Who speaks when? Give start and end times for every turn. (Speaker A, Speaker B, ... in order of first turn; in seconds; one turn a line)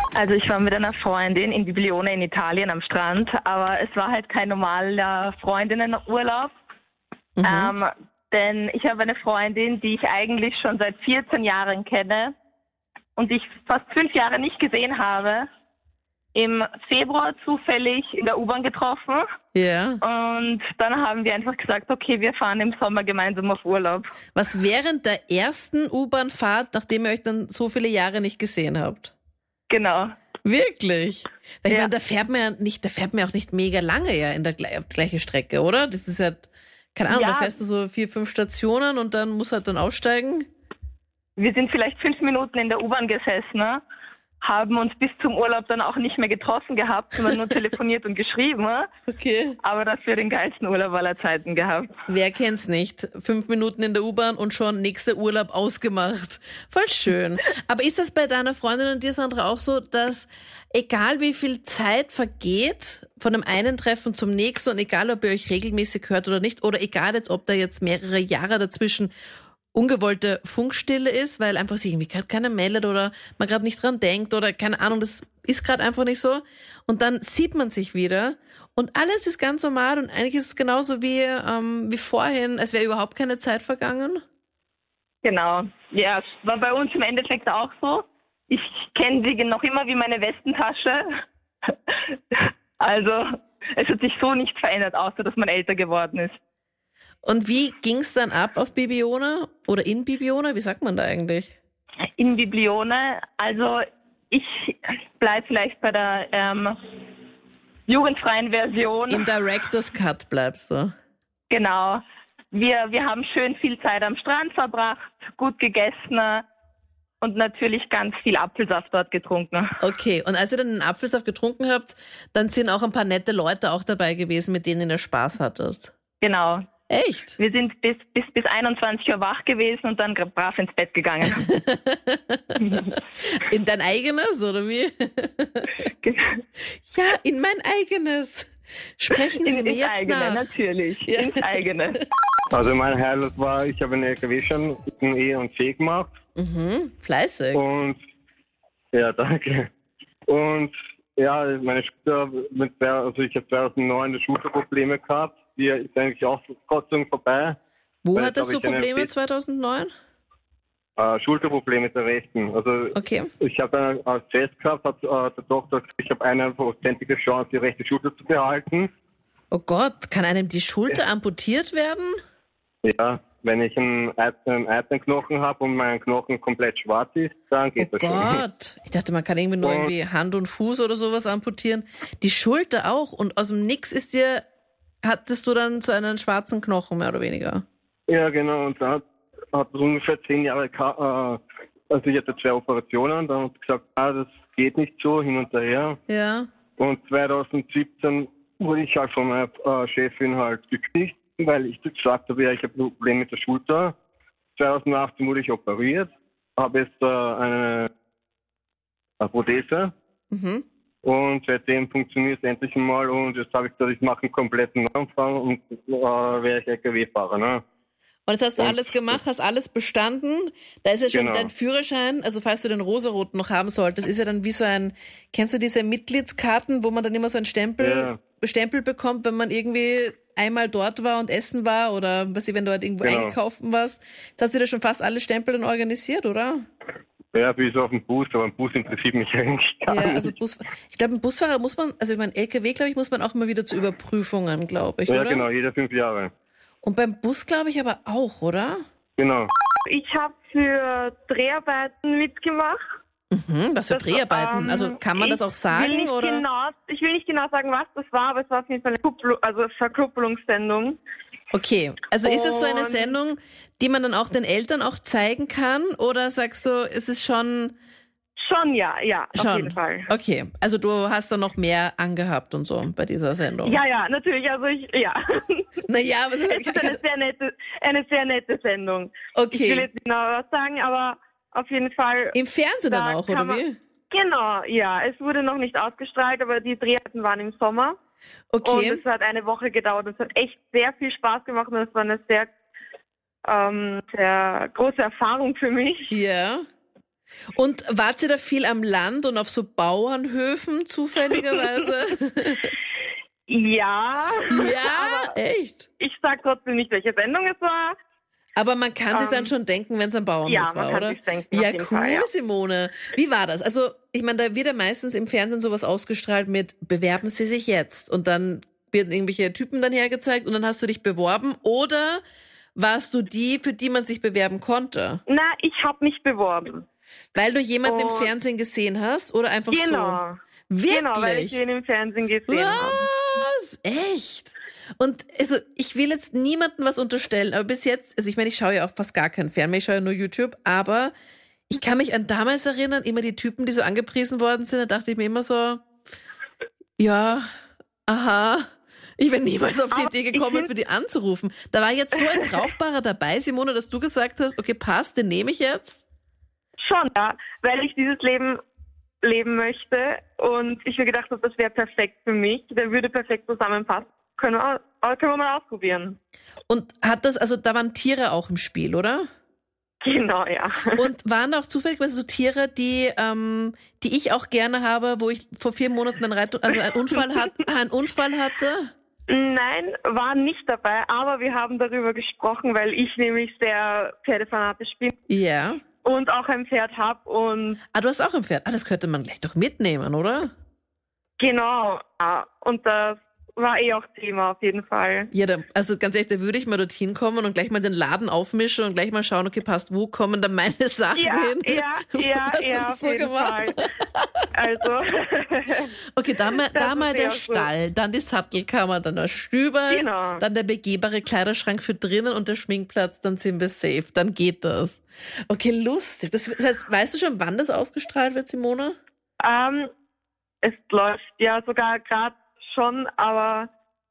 Speaker A: 0.1-6.5
Speaker B: 7.4-7.8
Speaker A: 7.4-12.3
Speaker A: 13.2-15.5
Speaker A: 16.3-19.2
Speaker B: 19.6-20.0
Speaker A: 20.0-24.1
Speaker B: 24.3-29.1
Speaker A: 29.7-30.1
Speaker B: 30.4-40.5
Speaker A: 37.1-37.5
Speaker A: 41.4-43.8
Speaker A: 44.4-48.9
Speaker B: 49.1-49.6
Speaker A: 49.6-51.9
Speaker B: 52.1-69.1
Speaker B: 69.7-84.2
Speaker A: 85.2-91.1
Speaker A: 92.3-96.4
Speaker B: 97.2-101.5
Speaker A: 102.2-106.7
Speaker A: 107.9-109.2
Speaker B: 109.1-110.9
Speaker A: 111.5-116.4
Speaker A: 117.2-119.7
Speaker B: 119.8-125.9
Speaker A: 126.2-126.7
Speaker B: 126.9-127.4
Speaker A: 127.4-131.5
Speaker B: 131.2-135.7
Speaker A: 135.8-136.4
Speaker B: 136.9-140.5
Speaker A: 139.4-142.0
Speaker B: 141.1-141.7
Speaker C: 142.5-146.1
Speaker B: 146.3-147.6
Speaker C: 147.5-148.0
Speaker C: 148.9-149.7
Speaker C: 150.3-157.6
Speaker B: 158.0-159.9
Speaker C: 158.1-159.1
Speaker C: 161.0-168.9
Speaker B: 162.9-163.3
Speaker B: 169.5-172.2
Speaker C: 172.8-178.4
Speaker B: 177.8-184.4
Speaker C: 179.6-179.9
Speaker B: 185.0-187.6
Speaker C: 188.1-189.0
Speaker C: 189.5-191.4
Speaker C: 191.9-196.0
Speaker B: 196.1-196.5
Speaker C: 196.8-203.9
Speaker C: 204.6-207.9
Speaker C: 209.2-209.9
Speaker B: 210.3-210.6
Speaker C: 211.0-217.6
Speaker B: 218.3-236.6
Speaker C: 218.6-219.2
Speaker C: 221.1-221.5
Speaker C: 227.8-228.2
Speaker C: 233.0-233.3
Speaker C: 237.3-240.3
Speaker B: 239.9-245.5
Speaker C: 245.1-246.3
Speaker B: 246.8-248.8
Speaker C: 249.2-249.5
Speaker D: 249.8-252.8
Speaker B: 253.3-256.4
Speaker D: 253.9-261.0
Speaker B: 261.5-267.8
Speaker D: 262.2-263.1
Speaker D: 268.4-270.1
Speaker B: 269.3-273.8
Speaker D: 273.6-275.7
Speaker B: 275.9-277.0
Speaker D: 276.5-282.4
Speaker B: 279.3-279.9
Speaker B: 282.3-283.8
Speaker D: 282.9-288.0
Speaker B: 288.5-289.0
Speaker D: 288.6-292.5
Speaker D: 293.4-296.1
Speaker B: 296.1-296.6
Speaker B: 297.5-302.7
Speaker D: 303.5-305.3
Speaker B: 304.5-305.9
Speaker D: 306.0-308.0
Speaker B: 308.6-322.2
Speaker D: 309.1-309.5
Speaker D: 310.5-312.3
Speaker B: 322.8-325.2
Speaker D: 325.3-326.8
Speaker B: 327.4-331.6
Speaker D: 327.9-328.3
Speaker D: 329.7-333.1
Speaker B: 332.5-341.1
Speaker B: 341.7-345.8
Speaker B: 347.0-347.5
Speaker B: 348.1-348.7
Speaker B: 349.2-356.0
Speaker D: 349.9-350.7
Speaker D: 356.8-358.6
Speaker D: 359.2-366.2
Speaker B: 366.7-369.2
Speaker D: 370.0-371.0
Speaker B: 370.9-378.9
Speaker D: 379.3-385.1
Speaker B: 385.3-385.8
Speaker D: 386.0-387.8
Speaker B: 387.9-390.5
Speaker D: 391.4-395.3
Speaker B: 395.3-404.5
Speaker D: 401.2-403.8
Speaker D: 404.6-405.9
Speaker B: 406.1-419.0
Speaker D: 406.7-407.7
Speaker D: 409.9-410.4
Speaker D: 419.4-419.9
Speaker D: 420.6-423.7